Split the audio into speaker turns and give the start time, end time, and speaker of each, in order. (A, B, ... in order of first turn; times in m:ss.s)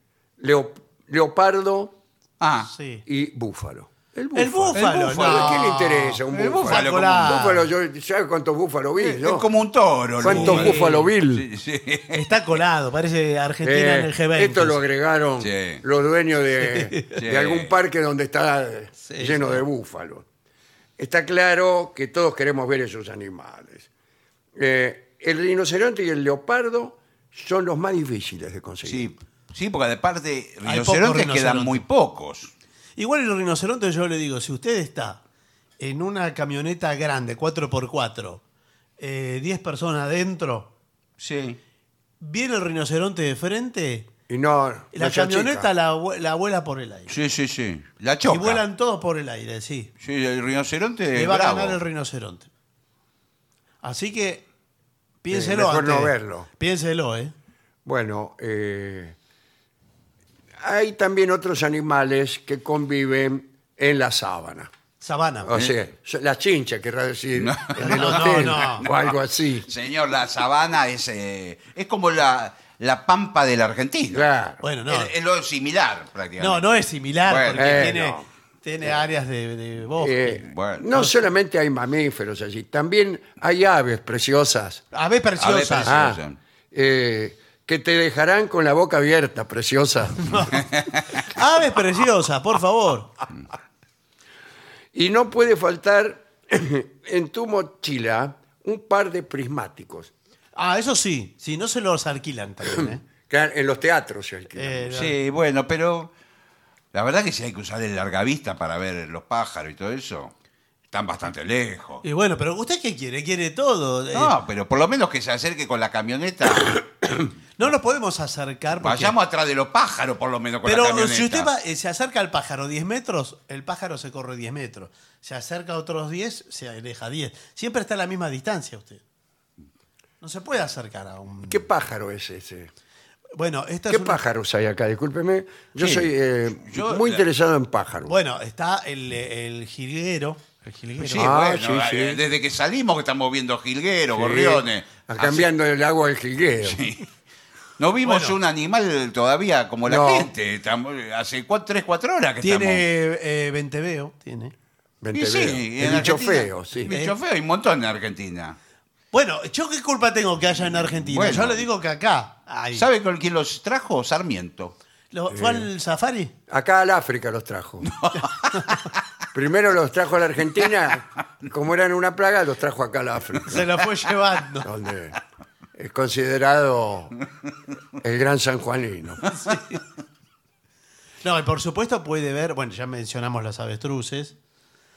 0:00.4-0:02.0 A
0:02.4-0:02.7 B
0:02.6-0:03.0 C
0:03.0-0:09.5 A
0:04.3-0:07.7 C
0:04.7-0:05.7 B
0:06.3-0:07.4 B
0:09.0-0:12.3 B
0:10.2-0:11.4 A
0:10.2-0:11.1 C
0:12.1-0:14.8 C
0:13.6-0:20.2 A
0:15.4-0:15.8 B
0:16.6-0:17.2 C
0:17.2-0:17.7 B
0:19.0-0:19.6 C
0:21.0-0:23.9 A
0:24.6-0:29.1 A
0:28.8-0:32.5 B
0:30.6-0:31.8 C
0:33.0-0:35.2 C
0:35.8-0:38.4 C
0:39.0-0:40.7 C
0:41.2-0:41.6 B
0:42.2-0:44.1 C
0:44.3-0:45.7 A
0:44.9-0:47.1 C
0:47.1-0:48.6 B
0:48.3-0:49.9 C
0:50.0-0:51.8 B
0:51.1-0:52.5 C
0:53.8-0:54.4 C
0:55.2-0:57.3 C
0:55.3-0:56.5 A
0:57.8-0:59.2 A
1:00.6-1:04.7 A
1:05.0-1:05.6 C
1:05.4-1:09.7 A
1:07.4-1:09.1 B
1:07.8-1:08.8 C
1:09.7-1:14.2 B
1:14.1-1:14.6 A
1:14.6-1:15.1 C
1:14.9-1:16.7 B
1:16.4-1:21.1 C
1:17.2-1:18.0 B
1:17.5-1:18.2 A
1:20.0-1:24.8 A
1:20.4-1:20.9 B
1:24.9-1:26.0 C
1:25.4-1:26.4 B
1:25.8-1:26.2 A
1:26.7-1:30.4 A
1:30.2-1:33.2 C
1:34.9-1:40.1 A
1:40.6-1:43.0 C
1:42.7-1:45.0 A
1:44.6-1:45.1 C
1:44.9-1:46.1 B
1:46.9-1:50.3 B
1:50.9-1:52.0 B
1:52.0-1:54.3 C
1:54.1-1:56.9 B
1:57.6-1:59.1 C
1:58.8-2:01.5 B
2:00.6-2:09.0 C
2:10.2-2:11.7 C
2:11.5-2:12.7 A
2:13.4-2:14.2 C
2:13.9-2:18.1 A
2:15.8-2:16.1 B
2:16.6-2:17.2 B
2:18.0-2:21.3 C
2:21.0-2:25.5 B
2:21.1-2:22.2 A
2:24.1-2:26.8 A
2:26.6-2:27.1 B
2:27.8-2:32.8 B
2:28.0-2:28.4 C
2:29.8-2:30.3 A
2:32.4-2:34.5 C
2:35.0-2:36.9 A
2:35.1-2:38.6 B
2:36.9-2:37.1 C
2:39.1-2:42.8 C
2:41.0-2:41.6 B
2:42.7-2:44.7 B
2:45.1-2:46.3 C
2:45.3-2:45.7 A
2:46.5-2:47.9 A
2:47.8-2:48.7 B
2:48.5-2:48.8 C
2:49.3-2:53.6 A
2:53.4-2:54.7 C
2:54.6-2:55.2 A
2:55.7-2:57.1 A
2:58.0-2:59.2 A
2:59.3-2:59.8 C
3:01.2-3:04.3 C